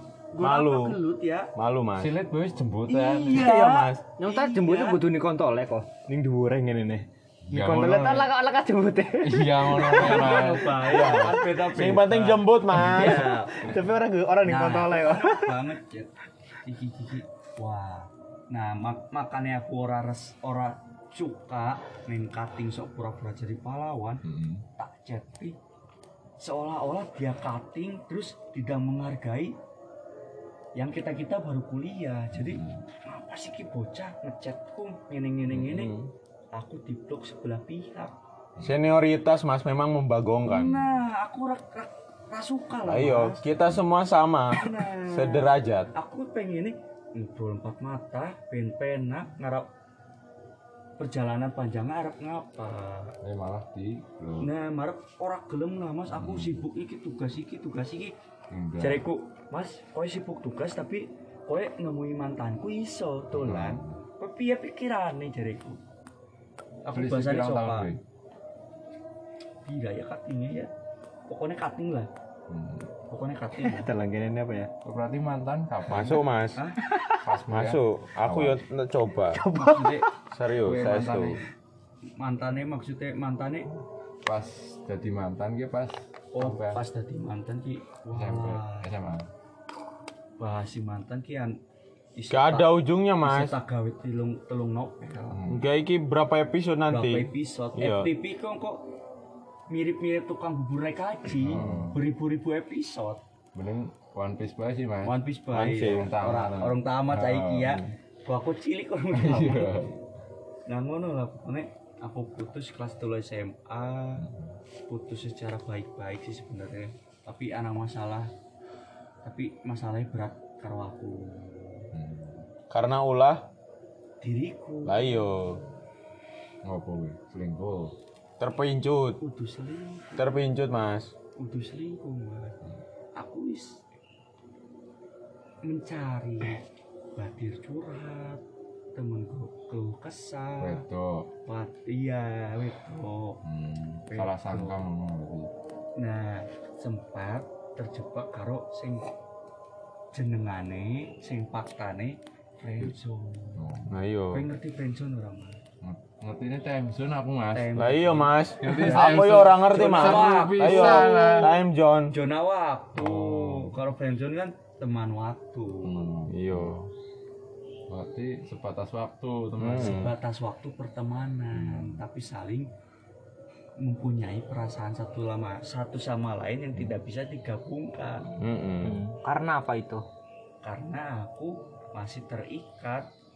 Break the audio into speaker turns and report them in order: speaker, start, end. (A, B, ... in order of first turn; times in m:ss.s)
0:00.3-0:01.5 A
0:00.4-0:01.0 B
0:01.5-0:02.1 B
0:02.0-0:03.5 C
0:02.9-0:05.0 A
0:03.3-0:04.0 B
0:04.2-0:10.6 D
0:07.5-0:08.3 C
0:09.2-0:10.8 C
0:09.8-0:13.8 A
0:10.8-0:13.3 B
0:12.8-0:15.6 D
0:14.4-0:16.1 A
0:16.6-0:24.2 A
0:24.2-0:24.6 C
0:24.8-0:25.6 A
0:26.4-0:29.5 A
0:30.8-0:35.9 A
0:32.3-0:32.8 C
0:35.5-0:36.1 B
0:36.5-0:38.2 A
0:38.6-0:41.0 B
0:40.5-0:43.5 A
0:42.8-0:45.9 B
0:44.5-0:49.7 A
0:51.0-0:53.1 A
0:53.2-0:54.5 C
0:54.4-0:58.1 A
0:56.1-0:56.6 C
0:58.5-0:59.0 C
0:58.8-1:05.8 A
1:03.3-1:04.0 C
1:06.8-1:07.9 A
1:06.9-1:08.0 C
1:09.6-1:10.7 A
1:11.3-1:12.1 A
1:12.5-1:12.9 C
1:13.1-1:13.9 A
1:13.5-1:14.7 D
1:14.8-1:16.2 C
1:15.9-1:16.6 B
1:16.8-1:17.2 D
1:17.2-1:18.6 C
1:17.5-1:19.4 B
1:19.3-1:20.0 D
1:19.6-1:20.1 A
1:20.3-1:21.4 B
1:20.6-1:21.4 C
1:22.2-1:23.7 A
1:24.2-1:26.8 C
1:26.3-1:28.9 A
1:28.1-1:29.3 C
1:30.4-1:31.6 A
1:32.2-1:35.4 A
1:32.3-1:33.5 B
1:35.3-1:35.7 C
1:35.5-1:38.1 B
1:36.9-1:38.8 A
1:39.7-1:43.2 A
1:41.4-1:42.0 C
1:41.6-1:41.8 B
1:43.5-1:45.1 C
1:45.0-1:49.9 A
1:45.5-1:46.1 B
1:45.8-1:47.9 C
1:49.1-1:49.9 C
1:50.7-1:54.2 A
1:54.2-1:54.6 C
1:54.9-1:58.3 A
1:59.2-2:01.9 A
2:01.9-2:02.5 C
2:02.7-2:03.5 B
2:04.2-2:05.6 A
2:04.8-2:05.6 B
2:06.6-2:07.9 C
2:08.4-2:09.2 B
2:09.2-2:10.4 A
2:10.2-2:11.1 B
2:11.4-2:12.6 A
2:13.2-2:13.8 A
2:15.6-2:16.6 A
2:17.2-2:18.4 A
2:18.9-2:20.8 A
2:20.6-2:21.3 C
2:21.4-2:23.4 A
2:23.4-2:25.5 C
2:24.1-2:24.8 A
2:26.0-2:29.1 A
2:30.1-2:33.7 A
2:33.6-2:34.0 C
2:33.9-2:34.4 B
2:34.3-2:35.6 A
2:35.8-2:37.8 C
2:37.5-2:41.5 A
2:37.8-2:42.1 B
2:38.6-2:41.5 C
2:42.1-2:46.1 A
2:42.9-2:43.7 C
2:45.8-2:46.7 C
2:46.3-2:46.9 B
2:47.9-2:50.1 C
2:49.6-2:50.1 B
2:49.7-2:52.7 A
2:51.5-2:52.0 C
2:53.8-2:58.3 A
2:58.4-2:59.0 B
2:58.4-2:59.0 C
2:58.8-3:00.0 D
3:00.6-3:03.1 A